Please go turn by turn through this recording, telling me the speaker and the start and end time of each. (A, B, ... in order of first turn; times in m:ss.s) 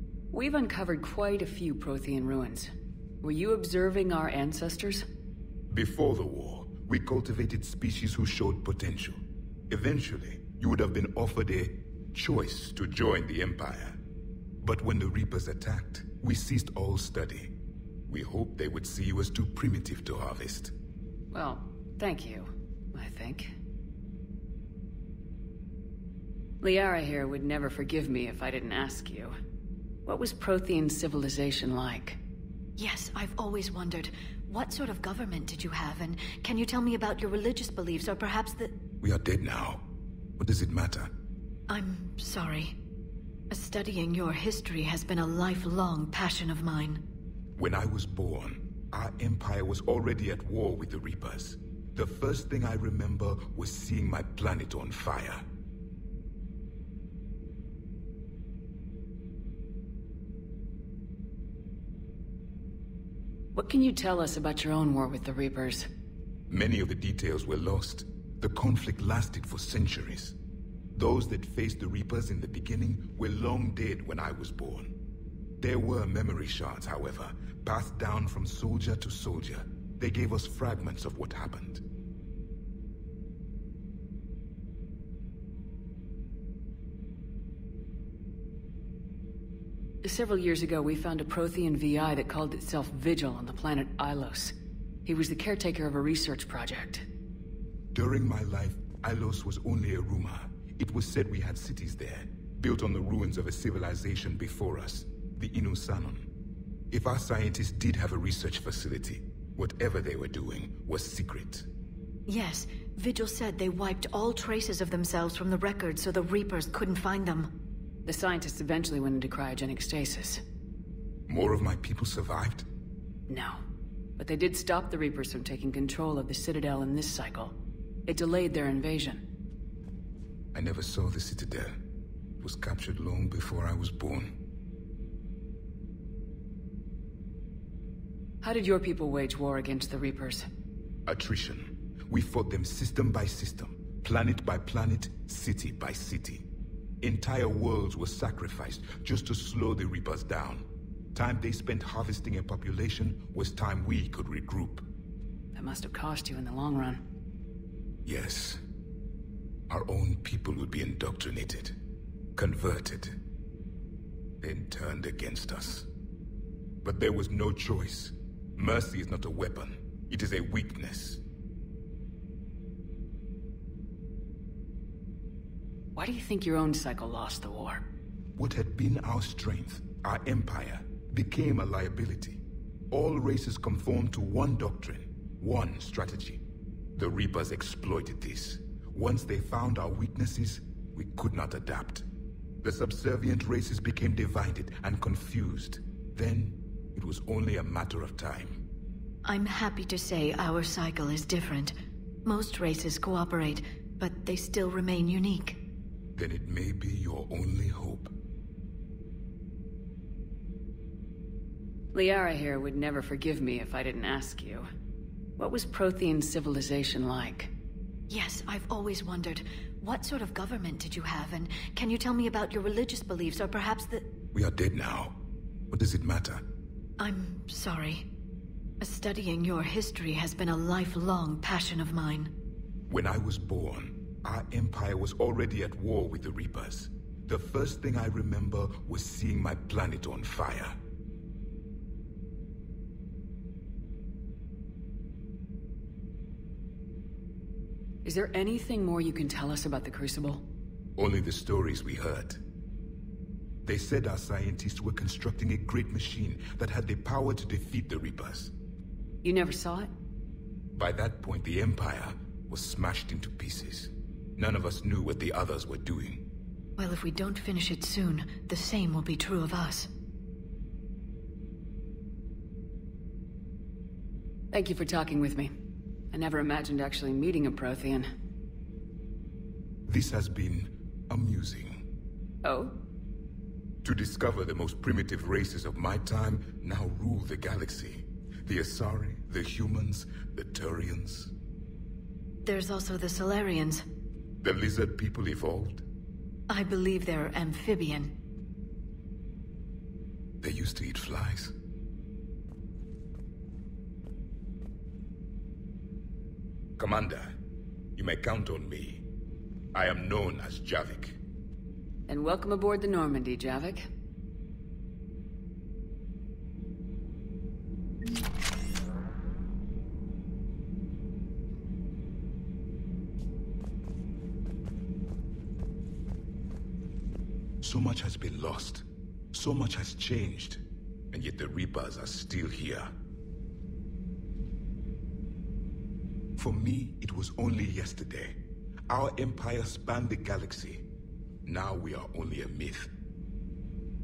0:00.3-0:02.7 A
0:03.2-0:05.0 A
0:05.7-0:14.0 B
0:14.6-0:17.5 B
0:18.1-0:20.7 B
0:21.3-0:23.5 A
0:26.6-0:29.3 A
0:30.1-0:32.2 A
0:32.8-0:38.8 C
0:39.0-0:39.8 B
0:40.4-0:41.1 B
0:41.7-0:42.8 C
0:43.5-0:47.0 C
0:47.6-0:55.4 B
1:03.6-1:05.9 A
1:06.5-1:10.4 B
1:11.0-1:14.9 B
1:15.6-1:21.8 B
1:30.0-1:34.5 A
1:35.0-1:37.0 A
1:37.9-1:46.3 B
1:46.9-1:51.7 B
1:52.3-1:57.5 C
1:58.1-2:00.4 A
2:01.3-2:02.7 B
2:03.3-2:03.6 A
2:04.2-2:07.6 A
2:08.1-2:09.2 A
2:10.5-2:11.8 B
2:12.4-2:14.4 B
2:18.4-2:20.5 A
2:21.1-2:26.5 B
2:27.0-2:34.9 B
2:35.6-2:37.0 A
2:38.0-2:38.6 B
2:39.7-2:41.8 B
2:42.4-2:43.2 B
2:44.4-2:45.9 B
2:46.8-2:51.2 B
2:56.0-2:57.8 A
2:58.4-3:06.4 B
3:07.0-3:12.1 B
3:12.6-3:18.6 B
3:19.2-3:21.7 C
3:22.2-3:25.6 C
3:26.2-3:28.2 B
3:31.9-3:34.7 A
3:35.4-3:37.5 A
3:38.1-3:44.1 C
3:44.3-3:45.2 B
3:45.7-3:46.4 B
3:47.0-3:48.1 C
3:48.8-3:52.3 C
3:52.9-4:00.8 B
4:08.0-4:10.4 A
4:11.0-4:12.4 B
4:13.6-4:18.5 B
4:19.2-4:19.9 A
4:20.8-4:26.2 B
4:26.8-4:29.9 C
4:34.5-4:35.5 A
4:36.1-4:38.1 A
4:39.9-4:41.8 B
4:42.4-4:42.8 A
4:43.8-4:51.3 B
4:52.4-4:53.8 C
4:54.4-4:55.8 B
4:56.5-4:58.1 C
5:00.4-5:01.5 B
5:06.8-5:07.4 B
5:08.0-5:09.1 B
5:09.8-5:11.2 B
5:12.1-5:13.8 A
5:27.6-5:30.6 B
5:31.1-5:32.9 B
5:36.4-5:38.4 B
5:38.9-5:40.9 B
5:41.5-5:42.9 B